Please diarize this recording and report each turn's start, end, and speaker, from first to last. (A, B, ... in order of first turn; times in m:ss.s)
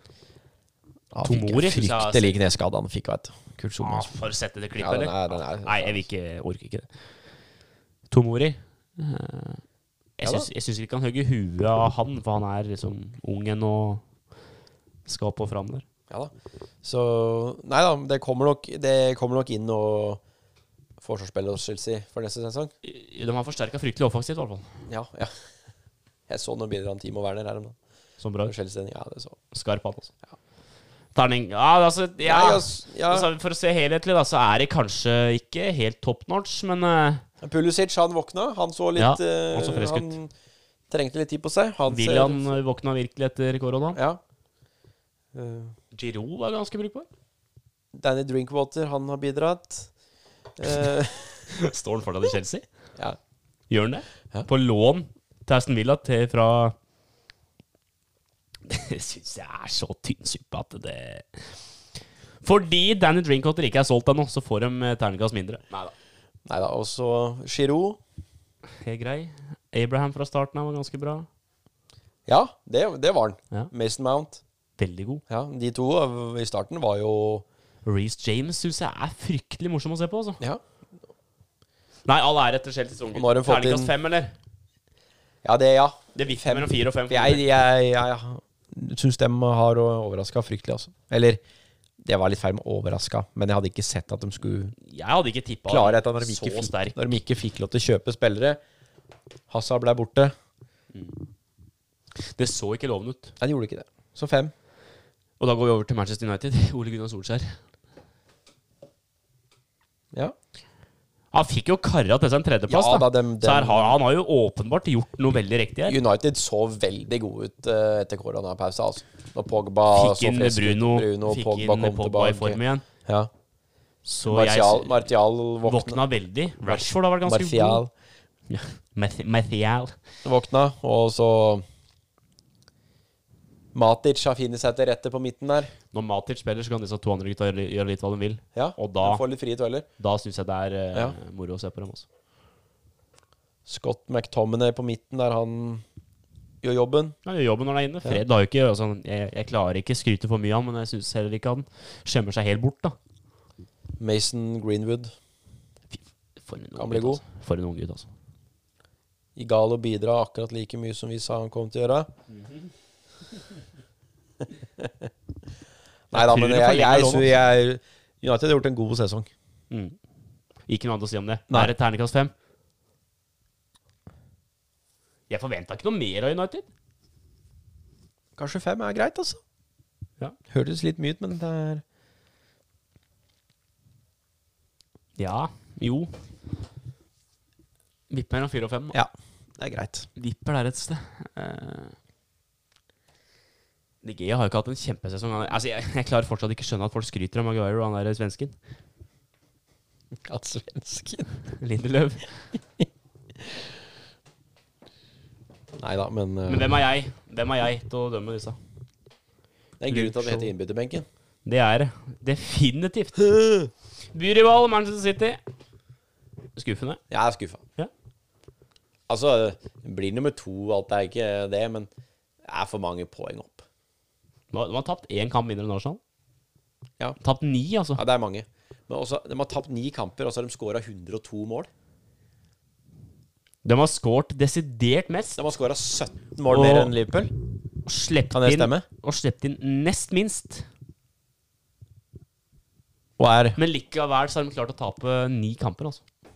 0:01.1-0:04.1 A
0:01.2-0:02.4 B
0:03.8-0:06.9 B
0:04.8-0:06.0 A
0:08.1-0:09.6 B
0:10.2-0:14.0 B
0:10.2-0:10.5 A
0:15.1-0:15.8 B
0:16.8-0:20.2 A
0:21.0-0:22.7 A
0:22.8-0:24.7 B
0:24.9-0:25.3 A
0:26.3-0:27.8 A
0:28.2-0:28.5 B
0:28.4-0:29.4 A
0:29.5-0:30.1 B
0:31.1-0:37.2 B
0:32.2-0:33.3 A
0:37.4-0:40.3 A
0:39.0-0:40.1 B
0:40.9-0:42.5 A
0:41.9-0:44.0 B
0:43.9-0:44.2 A
0:45.3-0:45.7 A
0:45.9-0:47.1 B
0:47.9-0:49.9 A
0:50.6-0:51.4 A
0:51.5-0:52.6 B
0:53.7-0:56.8 B
0:58.7-1:01.5 B
1:02.4-1:05.9 B
1:06.4-1:08.0 A
1:08.8-1:11.3 B
1:12.3-1:14.4 A
1:14.8-1:15.2 B
1:15.3-1:17.4 A
1:17.8-1:20.4 B
1:22.0-1:24.3 B
1:23.1-1:23.9 A
1:25.4-1:31.4 A
1:26.1-1:27.4 B
1:32.0-1:34.7 A
1:34.8-1:37.2 B
1:35.7-1:38.6 A
1:39.5-1:40.3 A
1:40.9-1:41.2 B
1:42.2-1:43.3 B
1:43.4-1:44.5 A
1:45.4-1:47.6 B
1:51.3-1:56.0 B
1:52.7-1:54.0 A
1:55.8-2:03.3 A
1:59.9-2:02.8 B
2:04.0-2:05.1 B
2:04.3-2:06.0 A
2:05.6-2:07.8 B
2:06.6-2:07.9 A
2:08.5-2:10.0 B
2:10.2-2:11.6 A
2:13.7-2:15.7 A
2:15.9-2:19.2 B
2:18.5-2:19.8 A
2:20.0-2:22.0 B
2:23.6-2:25.8 A
2:26.6-2:27.1 A
2:27.2-2:33.0 B
2:34.0-2:35.1 A
2:35.9-2:38.1 B
2:36.8-2:37.2 A
2:39.4-2:42.1 A
2:44.8-2:45.1 A
2:46.1-2:49.3 A
2:46.1-2:47.3 B
2:49.7-2:50.0 B
2:50.7-2:52.3 B
2:55.3-2:56.7 B
2:58.4-2:59.4 A
3:00.5-3:01.8 A
3:05.2-3:06.1 B
3:08.1-3:09.0 B
3:08.9-3:10.1 A
3:10.2-3:12.0 B
3:14.0-3:18.5 B
3:20.2-3:21.3 A
3:21.6-3:22.3 B
3:25.8-3:26.8 A
3:26.5-3:28.6 B
3:29.8-3:31.0 A
3:29.9-3:30.5 B
3:31.4-3:33.3 B
3:34.1-3:35.4 B
3:36.6-3:37.0 B
3:37.1-3:37.6 A
3:39.1-3:41.9 A
3:42.4-3:43.6 A
3:44.5-3:46.0 B
3:47.2-3:48.0 B
3:47.9-3:51.7 A
3:53.6-3:55.4 B
3:55.4-3:57.3 A
3:56.5-3:56.9 B
3:57.8-4:00.6 B
3:58.3-3:58.8 A
4:03.2-4:03.6 A
4:03.6-4:06.0 B